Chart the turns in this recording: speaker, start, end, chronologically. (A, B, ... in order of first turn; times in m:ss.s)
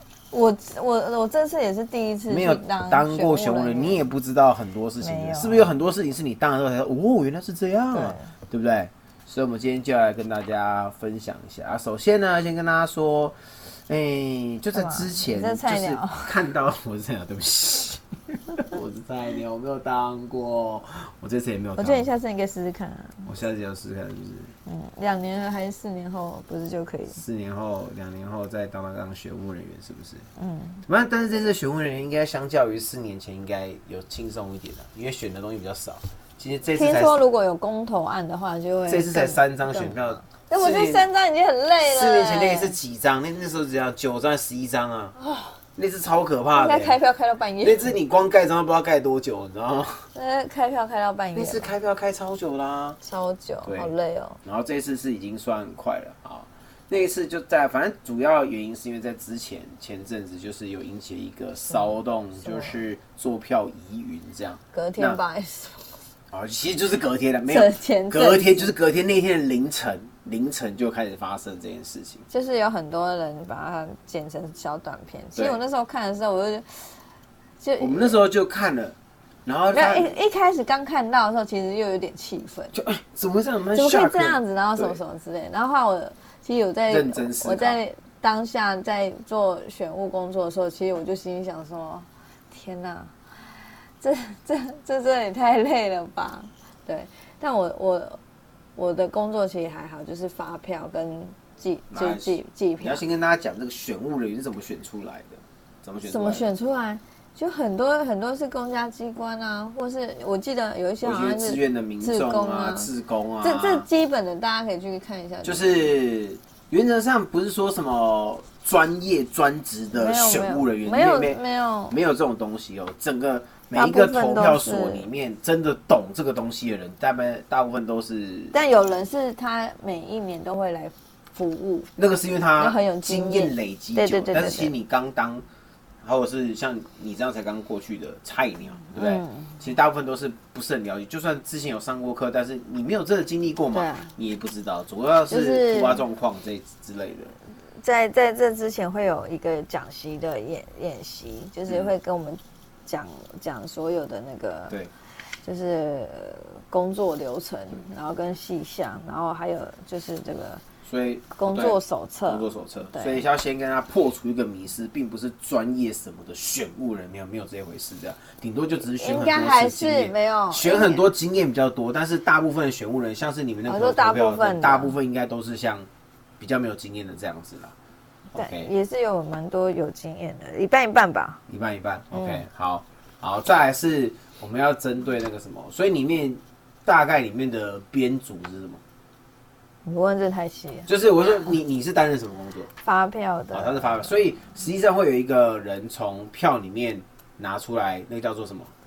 0:00.3-0:04.0 A
0:02.3-0:22.0 B
0:05.0-0:05.7 A
0:07.9-0:08.3 A
0:14.7-0:16.4 A
0:21.8-0:23.3 A
0:23.3-0:24.5 B
0:24.7-0:27.2 A
0:27.1-0:30.3 B
0:30.4-0:30.8 A
0:30.9-0:37.2 B
0:36.8-0:42.8 A
0:38.9-0:41.1 B
0:41.8-0:45.1 B
0:45.2-0:45.6 A
0:45.8-0:47.0 B
0:46.6-0:47.9 A
0:47.6-0:50.0 B
0:50.2-0:51.7 A
0:51.4-0:53.0 B
0:53.0-0:54.4 A
0:53.6-0:53.9 B
0:54.4-1:05.2 B
1:02.4-1:02.8 A
1:04.7-1:06.0 A
1:06.3-1:12.3 B
1:07.5-1:08.7 A
1:12.3-1:16.8 A
1:17.6-1:18.2 A
1:17.8-1:20.1 B
1:19.7-1:22.7 A
1:22.7-1:25.0 B
1:23.7-1:33.1 A
1:26.9-1:27.8 B
1:34.0-1:38.2 A
1:38.8-1:43.0 A
1:41.9-1:46.4 B
1:46.0-1:52.9 A
1:51.0-1:53.9 B
1:53.4-1:55.9 A
1:55.4-2:08.6 B
1:59.9-2:02.0 A
2:03.7-2:05.1 A
2:08.5-2:11.9 A
2:12.0-2:15.4 B
2:12.6-2:14.7 A
2:16.0-2:27.3 B
2:19.0-2:19.6 A
2:23.7-2:24.1 A
2:25.3-2:26.0 A
2:27.8-2:34.8 A
2:35.4-2:40.6 A
2:40.8-2:41.8 B
2:41.3-2:43.2 A
2:42.3-2:55.9 B
2:49.0-2:51.1 A
2:53.7-2:55.0 A
2:56.4-2:57.7 B
2:58.3-2:58.7 B
2:58.4-3:01.4 A
3:01.5-3:08.8 B
3:02.1-3:02.4 A
3:09.8-3:10.9 A
3:10.9-3:12.7 B
3:12.8-3:14.1 A
3:13.5-3:18.7 B